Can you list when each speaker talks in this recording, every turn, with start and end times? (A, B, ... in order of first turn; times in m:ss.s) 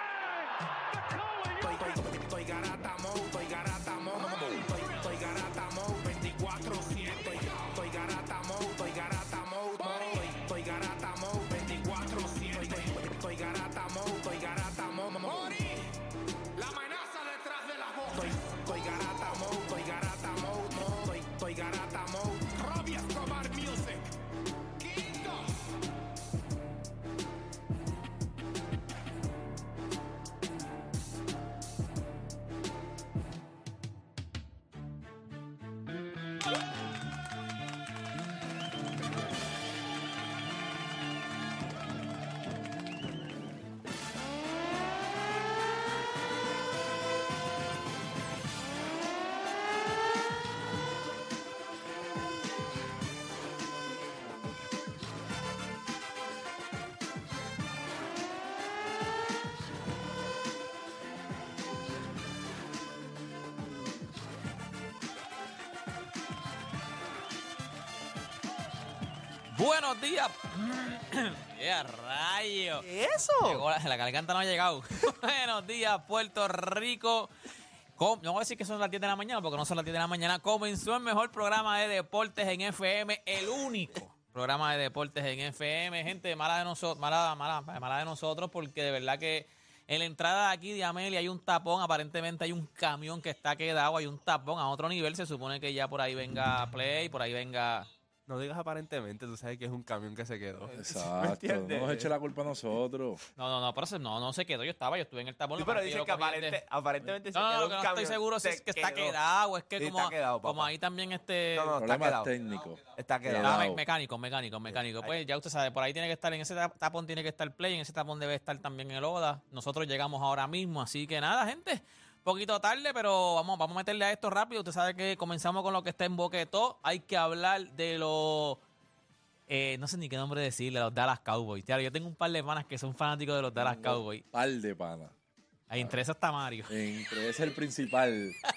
0:01.4-0:15.9 A
0:16.6-0:24.0 A
0:24.8-0:25.5 A
1:09.5-1:12.8 B
1:12.8-1:13.6 C
1:13.4-1:17.3 B
1:18.0-1:37.9 B
1:38.3-1:42.1 C
1:40.6-1:40.9 B
1:40.8-1:43.2 D
1:43.4-1:46.6 B
1:45.6-1:49.2 C
1:47.3-1:51.8 B
1:49.8-1:50.7 C
1:51.5-1:52.3 C
1:51.8-1:53.8 D
1:53.0-1:53.6 C
1:53.4-2:08.6 B
1:54.7-1:55.2 C
2:09.5-2:14.2 B
2:13.5-2:15.1 D
2:15.7-2:16.8 B
2:16.7-2:18.4 D